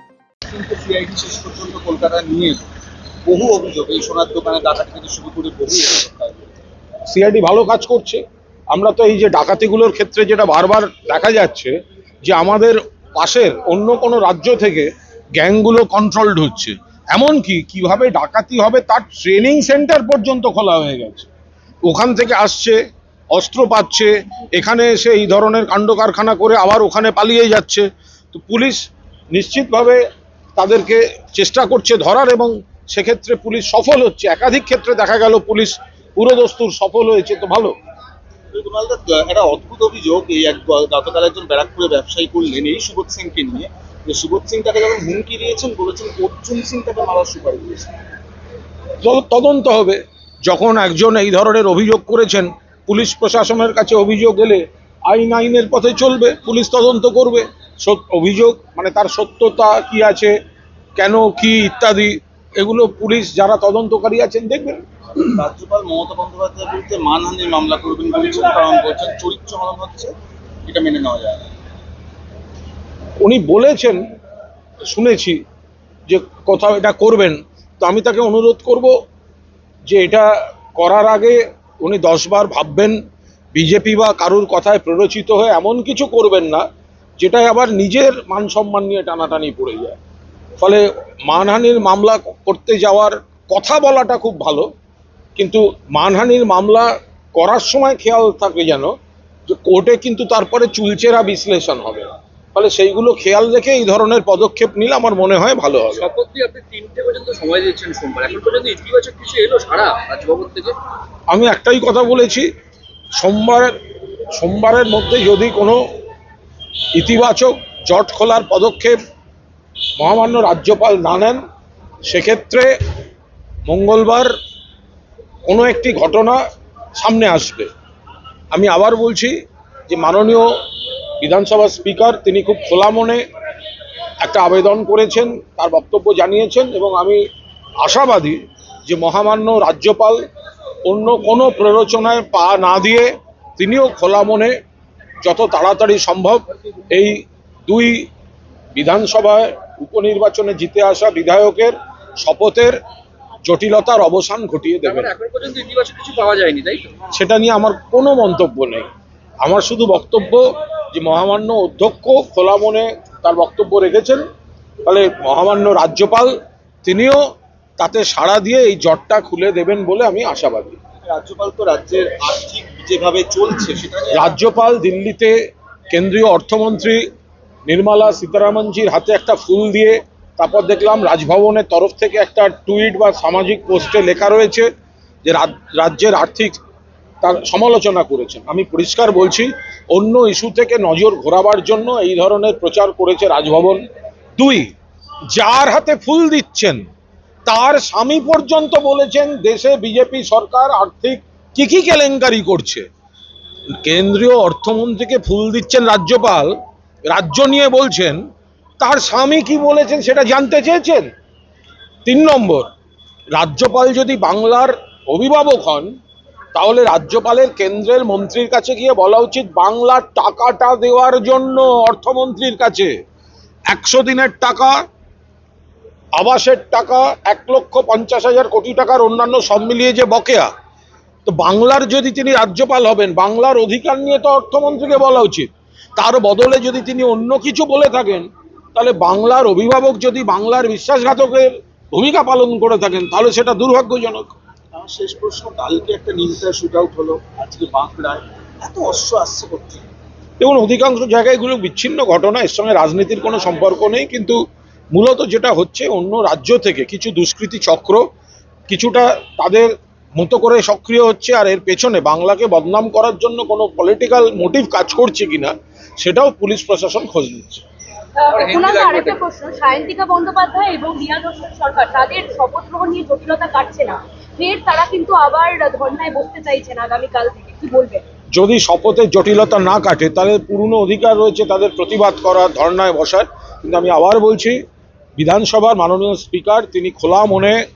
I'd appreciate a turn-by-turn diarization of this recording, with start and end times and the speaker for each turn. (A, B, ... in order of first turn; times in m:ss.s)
0:00.5-0:02.7 A
0:03.2-0:06.4 A
0:07.1-0:11.7 B
0:12.2-0:21.3 B
0:21.8-0:22.8 B
0:23.3-0:28.8 B
0:29.3-0:30.0 B
0:30.6-0:37.7 B
0:38.5-0:47.9 A
0:49.0-1:00.3 B
1:01.0-1:04.8 B
1:05.3-1:10.1 A
1:10.6-1:11.5 A
1:13.2-1:14.0 B
1:14.8-1:15.4 B
1:16.1-1:18.9 B
1:19.9-1:23.0 B
1:23.5-1:26.6 B
1:27.2-1:30.0 B
1:30.6-1:34.6 B
1:35.4-1:38.9 B
1:39.5-1:46.1 B
1:46.0-1:50.8 C
1:51.3-1:52.4 B
1:53.2-1:53.7 B
1:54.3-1:55.8 B
1:56.9-1:59.0 B
2:00.0-2:01.4 B
2:02.1-2:02.7 B
2:03.6-2:04.3 B
2:05.4-2:06.4 B
2:07.0-2:07.7 B
2:08.5-2:09.3 B
2:09.9-2:10.5 B
2:11.2-2:13.2 B
2:14.2-2:17.2 B
2:17.8-2:20.2 B
2:20.8-2:24.5 B
2:25.2-2:28.1 B
2:28.7-2:32.8 B
2:33.4-2:35.1 B
2:34.8-2:37.0 C
2:37.1-2:38.9 B
2:39.4-2:44.2 B
2:44.8-2:46.3 B
2:46.8-2:47.2 B
2:47.8-2:50.8 B
2:51.0-2:54.3 A
2:54.1-2:55.3 B
2:55.9-2:57.0 B
2:57.7-3:04.7 B
3:05.2-3:06.6 B
3:07.2-3:13.8 B
3:14.4-3:14.7 B
3:15.3-3:16.8 B
3:17.4-3:22.8 B
3:23.7-3:26.5 B
3:27.1-3:28.2 B
3:28.8-3:31.1 B
3:32.0-3:32.6 B
3:33.3-3:35.9 B
3:36.5-3:42.9 B
3:43.7-3:44.7 B
3:46.2-3:50.5 B
3:51.2-4:04.3 B
4:04.7-4:09.9 A
4:10.4-4:14.4 B
4:14.9-4:18.0 B
4:18.7-4:27.6 B
4:28.2-4:38.0 D
4:28.3-4:29.2 C
4:38.3-4:44.6 B
4:45.2-4:47.6 B